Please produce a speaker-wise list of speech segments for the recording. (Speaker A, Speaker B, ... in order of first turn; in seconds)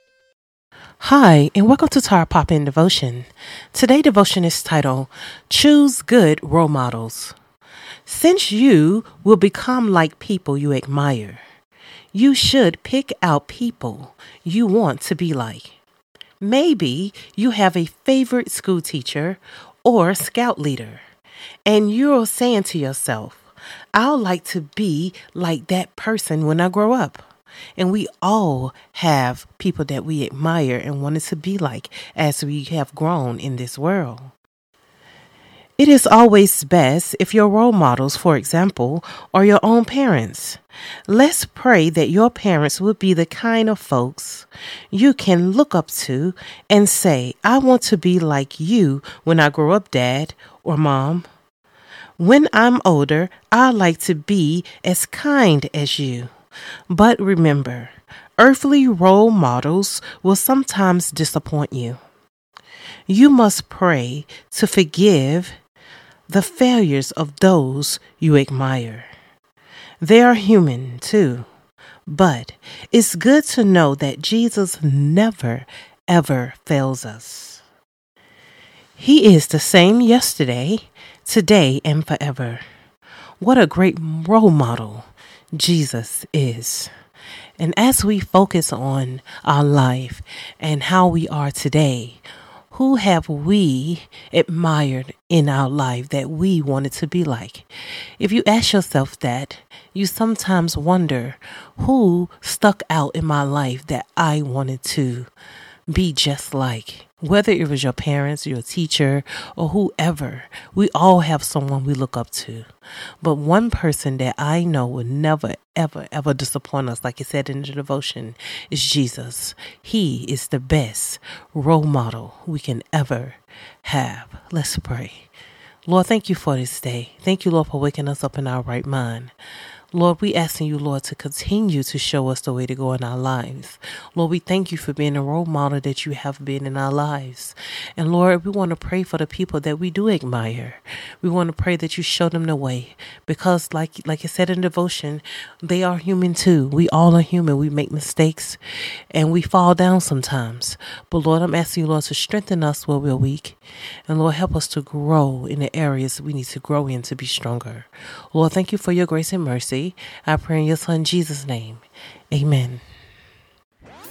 Speaker A: 1.0-7.4, 8.1-11.4, 12.1-15.8, 16.4-21.0, 21.7-27.3, 27.8-34.3, 35.8-51.3, 52.2-56.3, 56.9-62.0, 63.1-65.6, 66.3-69.1, 70.0-71.5, 72.1-77.6, 79.0-82.6, 83.4-86.9, 87.6-105.3, 105.9-112.7, 113.2-125.3, 125.9-129.3, 129.9-148.6, 149.1-162.8